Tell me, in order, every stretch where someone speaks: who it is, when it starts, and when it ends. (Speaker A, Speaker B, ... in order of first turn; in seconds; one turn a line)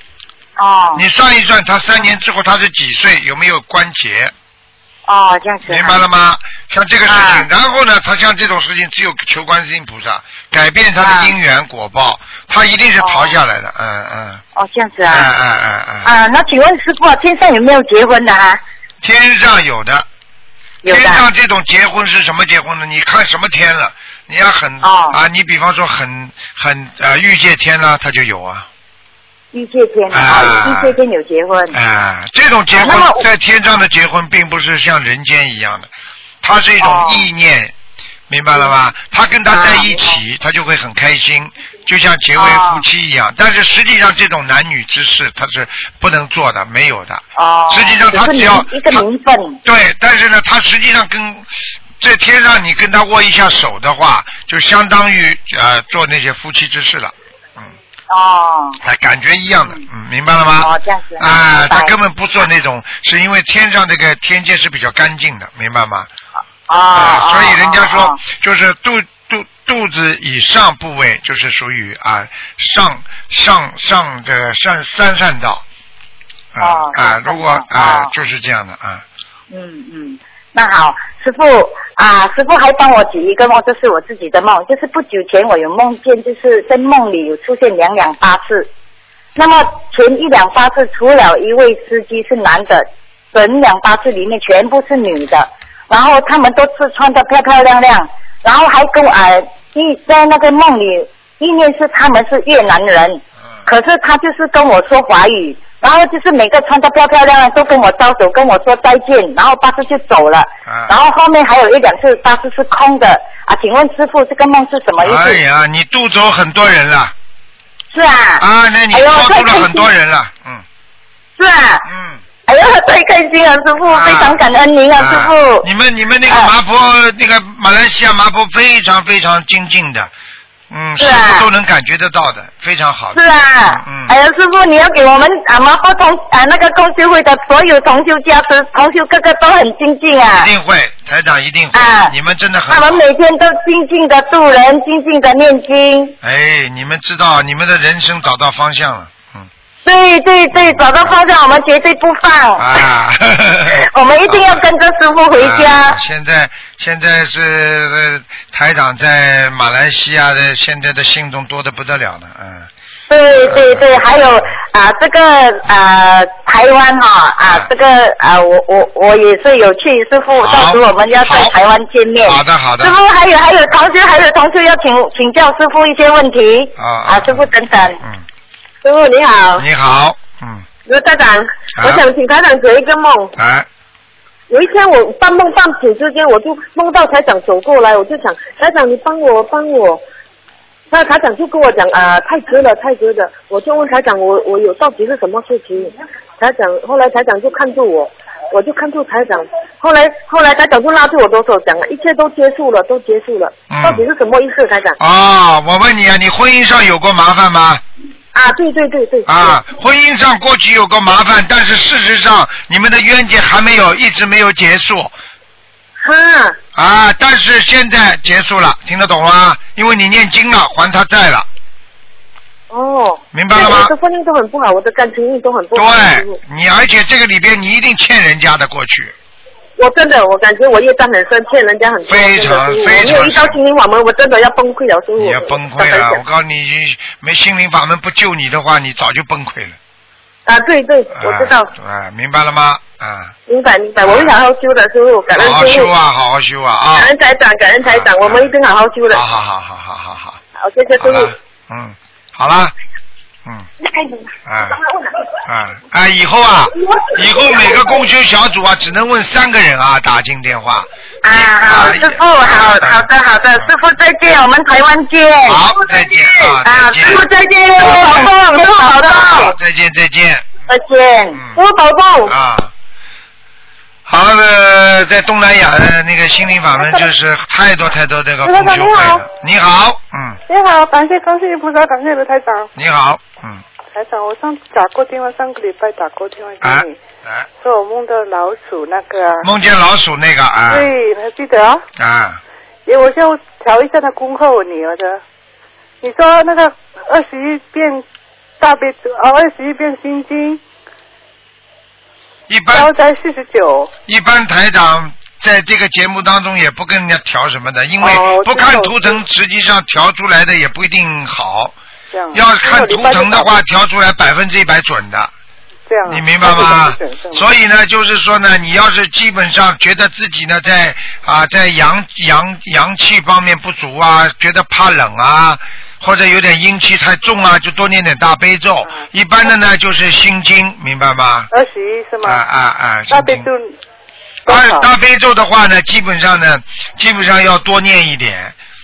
Speaker A: 0.6-1.0
Speaker B: 0.9-4.3
Speaker A: 5.1-6.0
Speaker B: 5.6-14.4
Speaker A: 7.0-7.5
Speaker A: 11.0-11.3
Speaker A: 13.0-13.3
Speaker A: 14.5-15.3
Speaker B: 15.1-16.1
Speaker A: 16.0-18.6
Speaker B: 19.0-20.1
Speaker A: 20.8-21.2
Speaker B: 20.8-28.7
Speaker A: 24.8-25.2
Speaker A: 29.5-31.8
Speaker B: 30.1-31.0
Speaker B: 31.7-35.9
Speaker A: 32.7-33.3
Speaker B: 36.4-37.7
Speaker A: 36.8-37.2
Speaker B: 38.3-49.0
Speaker A: 39.5-40.1
Speaker A: 42.3-42.8
Speaker A: 47.4-49.6
Speaker B: 49.6-57.7
Speaker A: 58.1-58.8
Speaker B: 58.8-66.1
Speaker A: 60.6-61.9
Speaker A: 66.7-68.2
Speaker B: 66.9-75.6
Speaker B: 76.5-79.0
Speaker A: 76.6-78.1
Speaker A: 79.5-88.7
Speaker A: 89.3-115.4
Speaker B: 110.7-110.9
Speaker B: 115.0-117.1
Speaker A: 117.9-119.9
Speaker B: 118.4-120.6
Speaker A: 121.4-121.9
Speaker B: 121.8-122.2
Speaker A: 122.5-125.7
Speaker B: 123.8-124.4
Speaker B: 125.0-130.1
Speaker B: 130.7-134.1
Speaker A: 131.0-131.5
Speaker A: 133.1-140.5
Speaker B: 140.3-143.0
Speaker A: 141.7-142.1
Speaker A: 142.7-146.2
Speaker B: 146.2-149.5
Speaker A: 149.8-152.7
Speaker B: 150.5-151.2
Speaker B: 152.6-154.7
Speaker A: 153.7-156.0
Speaker B: 155.3-162.7
Speaker A: 163.1-178.0
Speaker B: 163.5-164.2
Speaker B: 170.4-171.5
Speaker B: 172.2-173.0
Speaker B: 176.8-178.2
Speaker C: 178.8-179.6
Speaker B: 179.6-180.7
Speaker C: 180.8-183.3
Speaker B: 181.8-182.0
Speaker B: 183.3-183.7
Speaker C: 184.5-190.0
Speaker C: 190.9-205.0
Speaker B: 203.7-204.0
Speaker B: 205.0-207.8
Speaker C: 208.3-209.6
Speaker B: 209.2-215.1
Speaker C: 216.0-216.6
Speaker B: 216.7-221.5
Speaker C: 222.7-226.4
Speaker B: 223.3-223.9
Speaker B: 225.7-229.1
Speaker C: 229.8-236.2
Speaker B: 232.1-233.6
Speaker B: 235.2-239.8
Speaker C: 240.4-241.7
Speaker B: 241.1-243.3
Speaker C: 243.5-245.9
Speaker B: 244.0-244.3
Speaker B: 245.3-247.1
Speaker C: 246.9-249.2
Speaker B: 247.8-248.5
Speaker B: 249.1-250.4
Speaker C: 250.6-251.3
Speaker B: 251.0-252.7
Speaker B: 254.4-254.8
Speaker B: 255.4-263.7
Speaker C: 256.9-258.0
Speaker A: 261.2-265.7
Speaker B: 265.4-267.3
Speaker A: 266.5-269.5
Speaker C: 267.8-269.5
Speaker B: 267.8-268.3
Speaker B: 269.2-270.5
Speaker A: 270.7-271.4
Speaker B: 271.3-271.6
Speaker C: 271.5-272.3
Speaker B: 272.2-272.7
Speaker B: 274.1-280.4
Speaker D: 276.7-277.1
Speaker D: 278.4-279.2
Speaker D: 280.5-282.7
Speaker B: 282.8-283.6
Speaker D: 283.9-287.0
Speaker B: 286.6-287.4
Speaker D: 287.6-289.5
Speaker B: 289.4-290.9
Speaker D: 290.7-291.8
Speaker B: 292.0-292.4
Speaker D: 292.9-295.2
Speaker D: 296.0-298.0
Speaker D: 298.6-300.6
Speaker B: 302.5-302.9
Speaker D: 302.7-303.9
Speaker B: 304.1-311.7
Speaker D: 308.0-309.2
Speaker D: 312.1-313.6
Speaker B: 312.3-315.3
Speaker D: 315.9-317.5
Speaker B: 316.1-331.5
Speaker D: 328.9-329.5
Speaker D: 331.5-332.4
Speaker B: 332.2-333.5
Speaker D: 333.1-333.8
Speaker D: 334.4-334.9
Speaker B: 334.5-338.5